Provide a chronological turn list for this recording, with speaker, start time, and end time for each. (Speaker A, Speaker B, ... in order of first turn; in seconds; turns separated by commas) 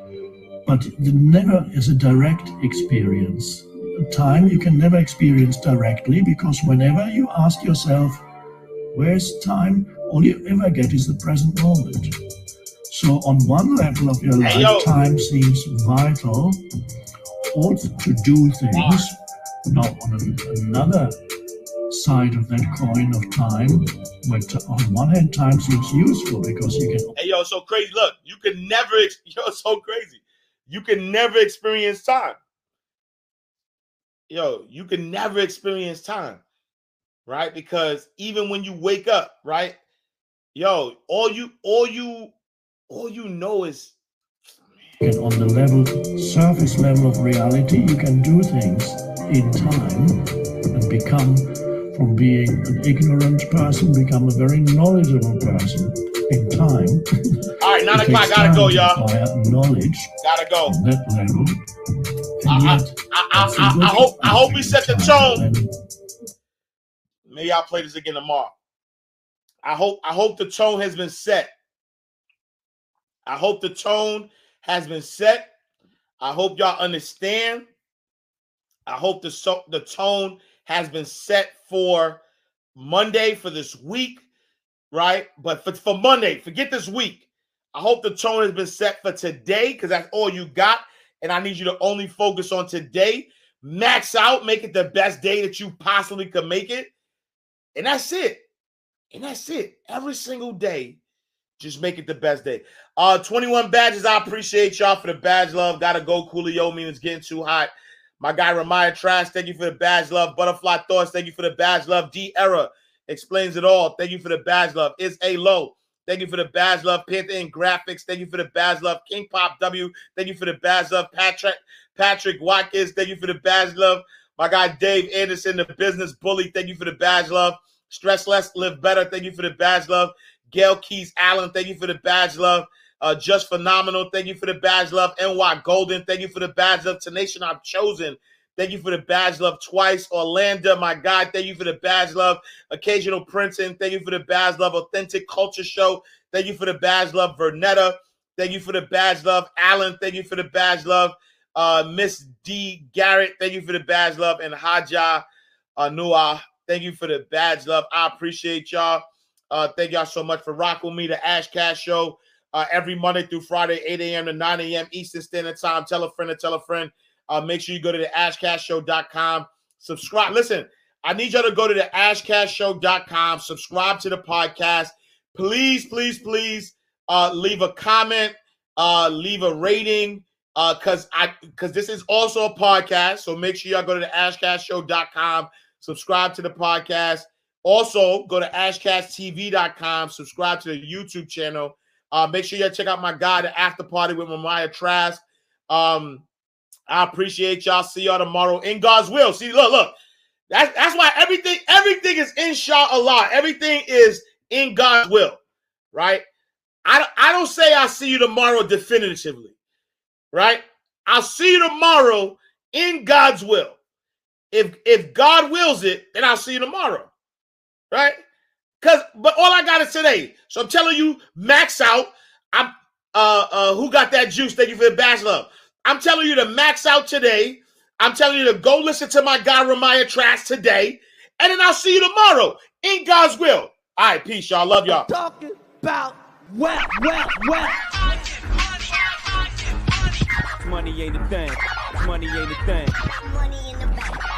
Speaker A: 0.6-8.2, Speaker A: 8.9-12.1, Speaker A: 12.9-16.6, Speaker B: 14.4-14.9, Speaker A: 17.5-19.2, Speaker B: 18.7-19.1, Speaker A: 19.7-21.2, Speaker A: 21.9-27.1, Speaker B: 27.2-32.4, Speaker B: 34.3-36.4, Speaker B: 37.3-39.8, Speaker B: 40.5-42.3, Speaker B: 42.9-43.9, Speaker A: 45.0-60.1, Speaker B: 57.6-59.0, Speaker B: 60.2-60.8, Speaker A: 60.6-61.6, Speaker A: 62.4-65.7, Speaker B: 62.5-65.5, Speaker B: 67.2-68.5, Speaker B: 69.6-71.5, Speaker B: 73.2-75.5, Speaker B: 76.2-77.7, Speaker B: 78.9-82.2, Speaker B: 82.8-84.2, Speaker B: 84.9-96.9, Speaker B: 97.7-98.4, Speaker B: 99.1-101.0, Speaker B: 101.6-155.2, Speaker B: 155.8-196.2, Speaker B: 196.9-199.9, Speaker B: 200.5-205.4, Speaker B: 205.9-206.2, Speaker B: 206.8-209.5, Speaker B: 210.3-213.8, Speaker B: 214.5-217.1, Speaker B: 217.9-218.2, Speaker B: 218.8-235.1, Speaker C: 234.9-237.8, Speaker C: 240.6-243.0